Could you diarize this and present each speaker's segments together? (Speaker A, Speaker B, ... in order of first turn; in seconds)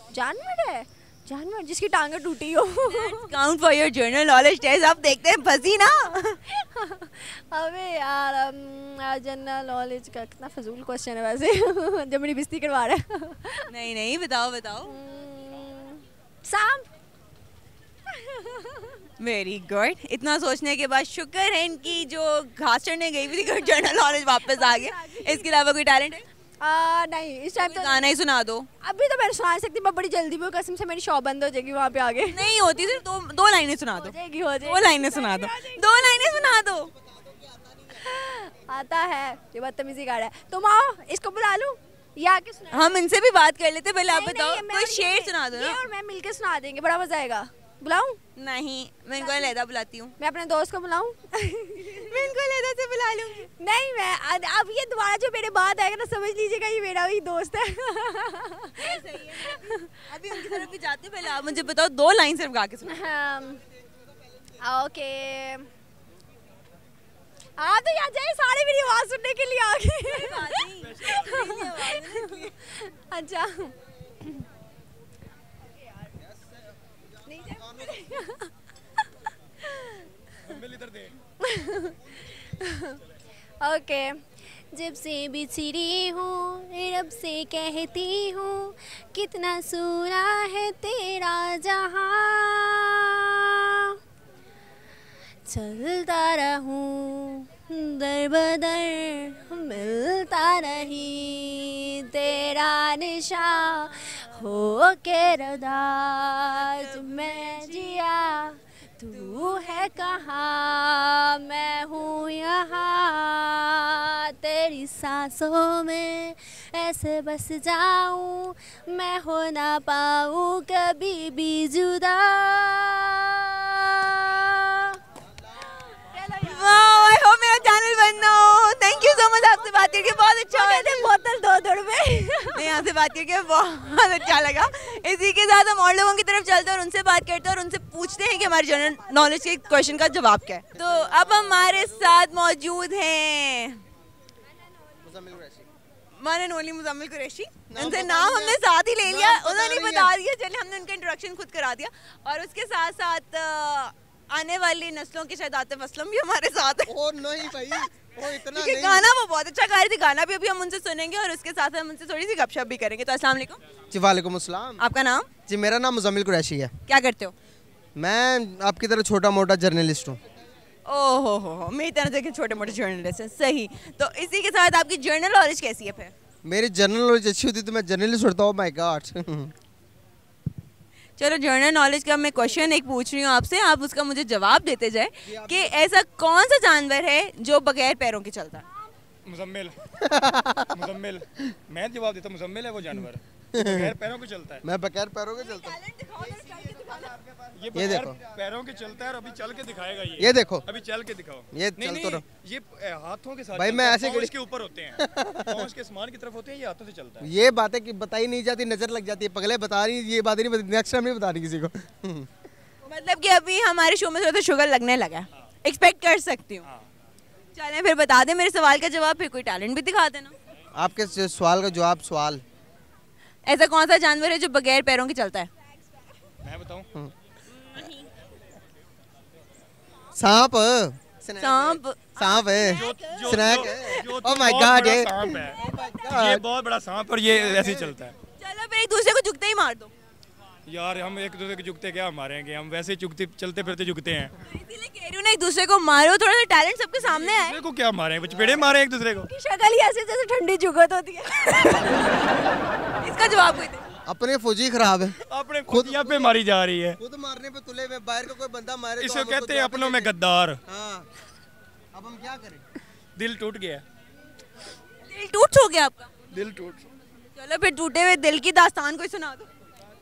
Speaker A: 0.1-3.3, 6.5-13.6, 14.8-16.9, 18.2-19.0, 23.9-25.5, 26.6-28.1, 28.8-32.9, 34.0-36.5, 37.9-43.0, 44.1-48.2, 49.2-49.5, 50.2-52.0, 53.6-59.8, 62.9-63.6, 64.6-65.7, 67.6-73.7, 77.3-78.5, 81.4-83.0, 83.6-84.2, 84.7-93.9, 95.5-124.9, 130.5-132.8, 196.1-196.5, 249.3-251.9
Speaker B: 2.8-6.4, 13.7-14.9, 19.2-26.2, 27.6-28.7, 32.3-36.9, 42.7-45.8, 48.4-50.1, 51.8-53.5, 58.8-63.0, 70.1-72.5, 106.7-107.8, 126.2-131.1, 132.5-143.8, 146.2-156.9, 157.5-163.6, 164.8-165.3, 166.9-167.3, 170.8-176.1, 181.2-188.6, 195.8-197.0, 212.8-216.7, 217.5-220.3, 223.4-225.5, 227.6-228.0, 231.4-234.0, 238.4-239.9, 244.5-247.6, 253.0-253.8, 265.1-266.1, 267.3-269.5
Speaker C: 70.8-71.3, 80.4-81.1, 189.2-189.9, 190.7-194.6, 197.3-207.3, 226.4-226.9, 232.7-238.1, 240.7-244.3, 247.0-249.3, 255.3-257.0, 259.0-260.6, 263.1-263.8, 266.3-266.9
Speaker D: 140.7-142.1, 145.0-145.6, 147.7-150.1, 156.9-159.1, 163.9-164.8, 165.4-166.7, 168.0-170.2, 176.4-179.5, 185.2-185.8, 190.0-190.7, 193.5-193.9, 194.6-195.8, 197.7-198.2, 200.2-200.7, 201.5-202.2, 203.5-204.3, 205.0-205.6, 207.2-212.3, 220.7-222.4, 230.1-236.4, 237.3-237.9, 254.1-255.1, 255.7-256.3, 257.0-260.1, 260.7-261.1, 261.9-262.6